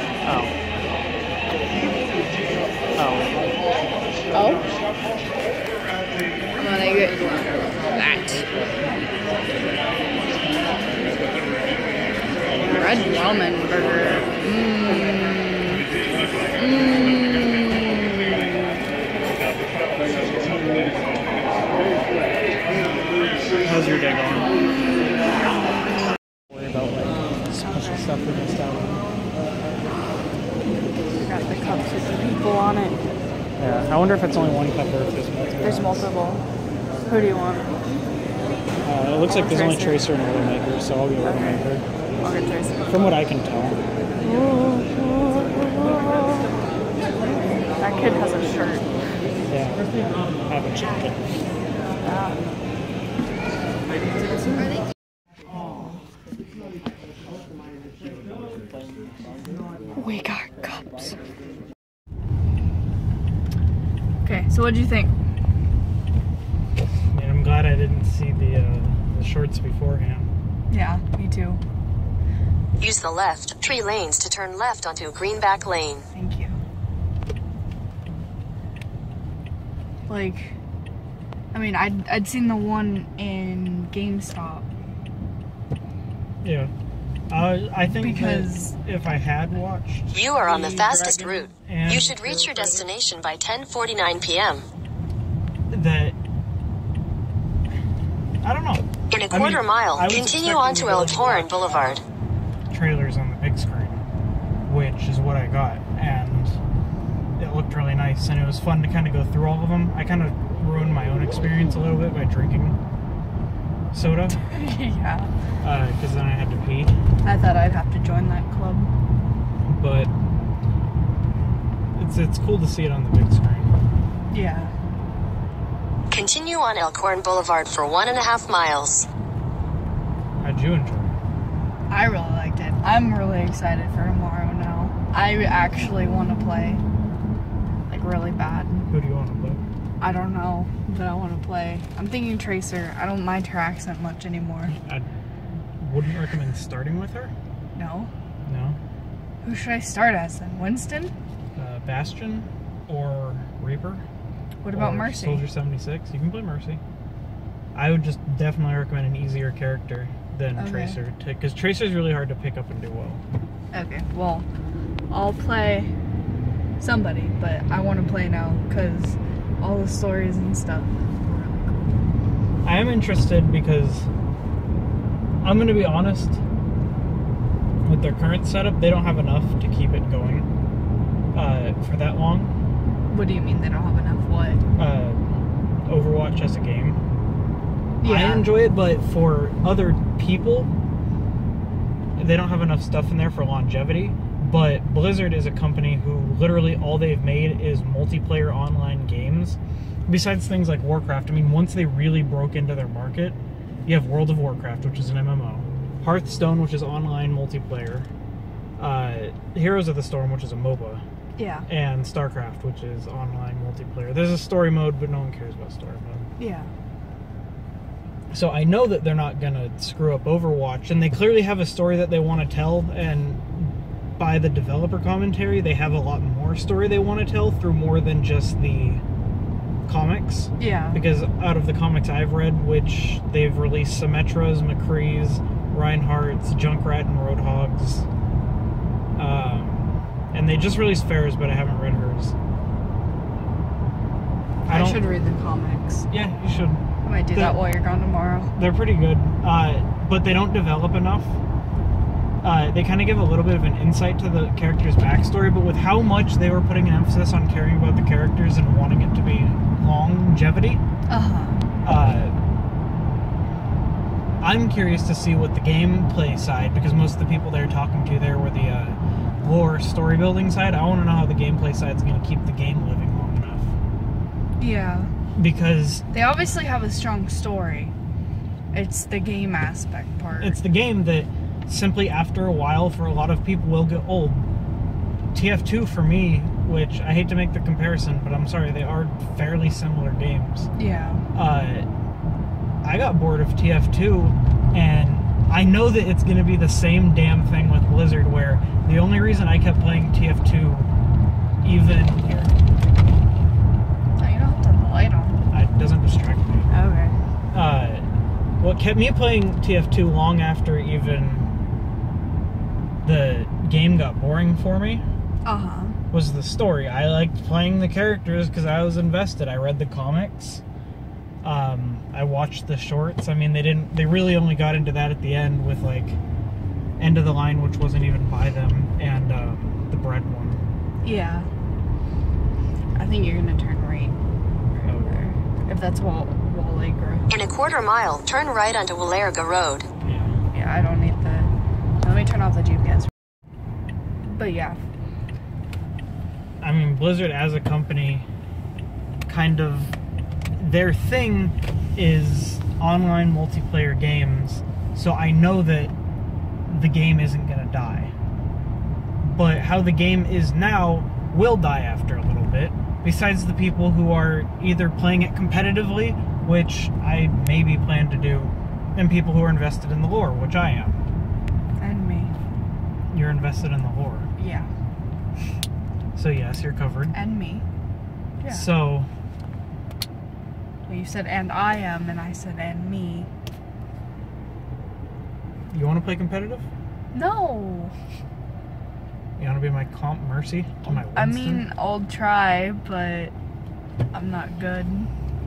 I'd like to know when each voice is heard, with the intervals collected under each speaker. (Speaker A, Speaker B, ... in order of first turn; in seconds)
Speaker A: 0.2-0.6, 3.0-3.5, 20.3-20.9, 23.6-24.6, 26.5-29.1, 33.6-36.1, 38.8-41.9, 42.9-43.8, 49.5-49.9, 50.4-51.5, 67.1-70.3, 86.4-86.7, 87.3-92.9, 95.7-96.2, 98.4-102.0, 102.7-104.0, 104.7-106.6, 107.4-112.8, 113.9-114.4, 115.6-117.0, 119.7-120.1, 122.0-123.8, 130.4-131.2, 138.9-139.6, 144.7-145.1, 145.8-147.3, 148.4-148.8, 151.6-154.0, 154.7-156.8, 157.7-163.2, 172.6-174.1, 175.4-176.4, 177.8-180.5, 181.3-182.6, 184.8-185.2, 185.8-187.0, 188.0-190.7, 192.2-208.1, 208.8-211.0, 211.7-216.3, 218.3-229.0, 229.9-238.1, 239.2-242.3, 244.7-245.1, 246.1-247.6, 248.6-251.4, 252.4-260.8, 261.8-262.3, 264.4-273.8, 275.4-276.1, 280.4-284.5, 285.3-290.7, 291.3-291.9, 292.8-300.9, 301.6-302.6, 305.5-306.7, 307.5-308.1, 308.6-311.5, 313.0-315.1, 316.1-320.6, 321.4-326.2, 327.0-330.6, 334.8-335.3, 340.0-340.4, 346.6-348.3, 349.3-349.9, 350.6-355.9, 356.7-358.1, 359.2-371.0, 373.1-374.3, 376.1-377.1, 378.5-379.1, 385.7-386.7, 389.4-391.7
Speaker B: 4.3-4.7, 6.6-8.9, 12.5-15.9, 16.6-18.8, 24.6-25.4, 27.6-28.1, 31.1-33.0, 35.6-36.4, 37.0-37.7, 39.3-40.1, 41.2-41.6, 42.2-43.1, 44.2-46.6, 47.8-48.9, 52.0-52.5, 60.0-61.2, 64.2-65.1, 70.7-71.6, 76.1-76.6, 80.1-80.6, 81.5-84.7, 87.9-88.8, 114.5-115.3, 117.2-118.9, 124.3-124.7, 131.9-136.8, 137.9-138.9, 140.0-144.8, 147.8-148.1, 149.4-151.1, 154.6-155.5, 160.6-161.0, 163.7-164.5, 165.1-165.9, 166.8-172.0, 183.1-184.6, 188.0-188.5, 211.4-211.7, 216.4-216.7, 230.6-231.0, 244.7-246.1, 247.1-248.5, 261.1-261.7, 274.6-275.1, 276.1-277.9, 278.7-280.6, 290.8-291.2, 304.2-305.4, 306.7-307.2, 315.4-316.0, 331.0-331.5, 333.0-334.2, 334.7-337.3, 340.5-343.1, 344.2-344.8, 371.8-372.4, 374.4-374.7, 377.1-377.7, 378.4-378.7, 380.9-383.3, 387.1-387.9, 390.9-393.3, 394.1-395.1
Speaker C: 72.8-76.0, 90.1-94.6, 99.1-102.0, 126.1-129.1, 337.3-339.9